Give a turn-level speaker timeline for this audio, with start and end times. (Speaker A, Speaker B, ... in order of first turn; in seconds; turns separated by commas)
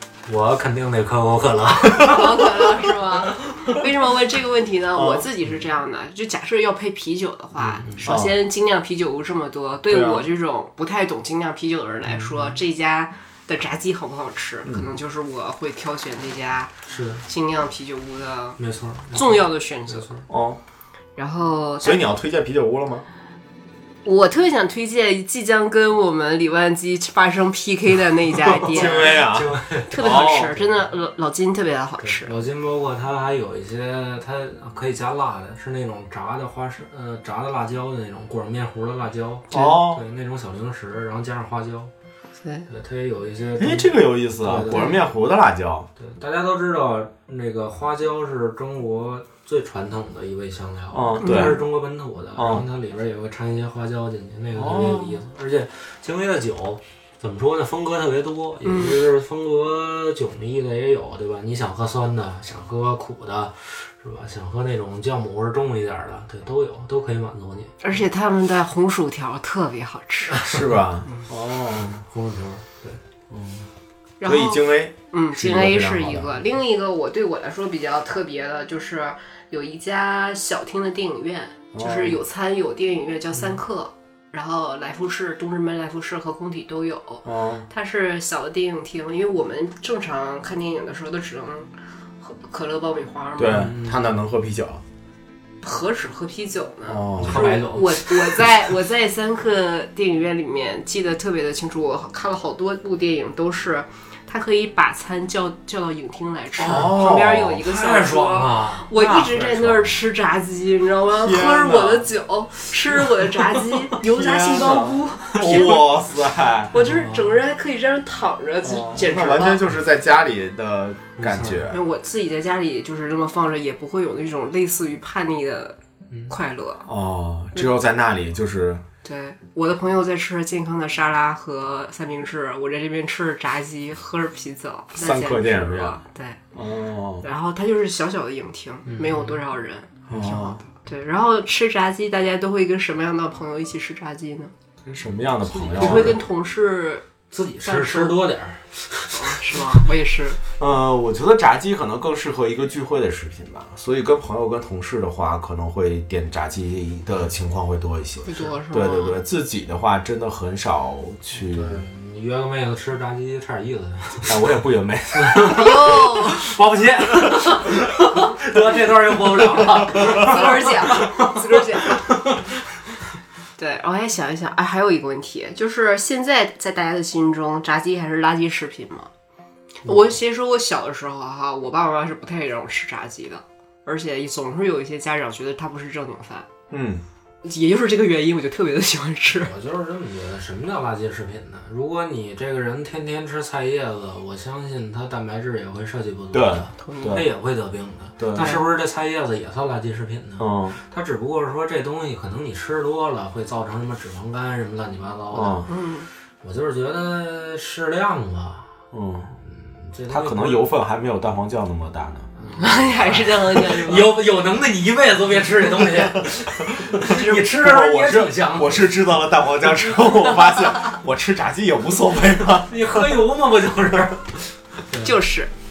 Speaker A: 0.3-2.5, Speaker B: 2.0-16.7, Speaker C: 5.0-5.3, Speaker A: 7.6-8.1, Speaker C: 8.0-8.4, Speaker C: 9.9-10.3, Speaker A: 12.1-12.6, Speaker A: 16.9-17.2, Speaker B: 17.3-18.6, Speaker A: 18.6-20.2, Speaker B: 19.1-20.1, Speaker C: 20.3-20.6, Speaker B: 21.2-22.1, Speaker C: 21.8-23.1, Speaker B: 24.1-29.2, Speaker C: 28.7-30.6, Speaker A: 28.8-30.3, Speaker B: 29.9-32.3, Speaker A: 32.0-41.9, Speaker C: 39.5-40.0, Speaker B: 42.4-42.7, Speaker A: 42.7-45.0, Speaker C: 43.6-45.9, Speaker B: 44.7-45.0, Speaker A: 46.0-67.8, Speaker C: 50.9-51.6, Speaker B: 51.2-51.6, Speaker C: 52.4-52.6, Speaker C: 54.6-55.2, Speaker B: 58.6-59.0, Speaker B: 67.8-70.5, Speaker A: 70.3-70.8, Speaker C: 70.5-72.0, Speaker A: 71.7-73.0, Speaker B: 74.2-93.7, Speaker C: 74.2-76.3, Speaker C: 81.7-82.2, Speaker A: 83.3-83.6, Speaker C: 87.2-87.7, Speaker C: 93.4-94.8, Speaker A: 93.5-94.1, Speaker B: 95.6-115.9, Speaker C: 96.9-97.6, Speaker A: 97.2-98.4, Speaker A: 106.6-109.4, Speaker C: 106.7-107.6, Speaker C: 109.3-109.9, Speaker C: 111.2-112.1, Speaker C: 114.0-116.7, Speaker A: 115.3-115.7, Speaker B: 116.7-119.6, Speaker A: 116.7-117.3, Speaker C: 118.6-121.8, Speaker A: 121.2-121.7, Speaker B: 121.7-125.8, Speaker B: 126.3-126.8, Speaker C: 126.9-128.8, Speaker B: 129.0-136.4, Speaker C: 135.0-136.0, Speaker C: 136.5-137.3, Speaker B: 137.2-144.5, Speaker A: 138.9-139.4, Speaker C: 140.1-140.6, Speaker C: 144.9-146.2, Speaker A: 145.5-146.2, Speaker B: 145.8-147.1, Speaker A: 147.3-149.8, Speaker B: 147.6-148.2, Speaker B: 149.1-150.4, Speaker C: 150.6-161.8, Speaker B: 158.2-159.2, Speaker A: 161.3-164.4, Speaker C: 164.3-165.7, Speaker A: 165.1-172.5, Speaker B: 165.4-166.5, Speaker B: 169.9-172.2, Speaker B: 173.6-179.1, Speaker B: 179.8-186.5, Speaker A: 179.9-180.1, Speaker C: 186.7-187.0, Speaker B: 187.4-189.5, Speaker A: 189.4-205.7, Speaker C: 196.3-197.3, Speaker B: 196.8-197.3, Speaker C: 198.2-198.5, Speaker B: 198.3-198.7, Speaker C: 200.4-200.8, Speaker C: 205.3-205.7, Speaker B: 205.7-206.1, Speaker A: 206.4-210.7, Speaker C: 208.9-209.3, Speaker C: 210.1-212.3, Speaker A: 212.4-218.9, Speaker B: 212.6-214.1, Speaker C: 215.8-222.7, Speaker A: 222.6-225.2, Speaker B: 225.0-225.5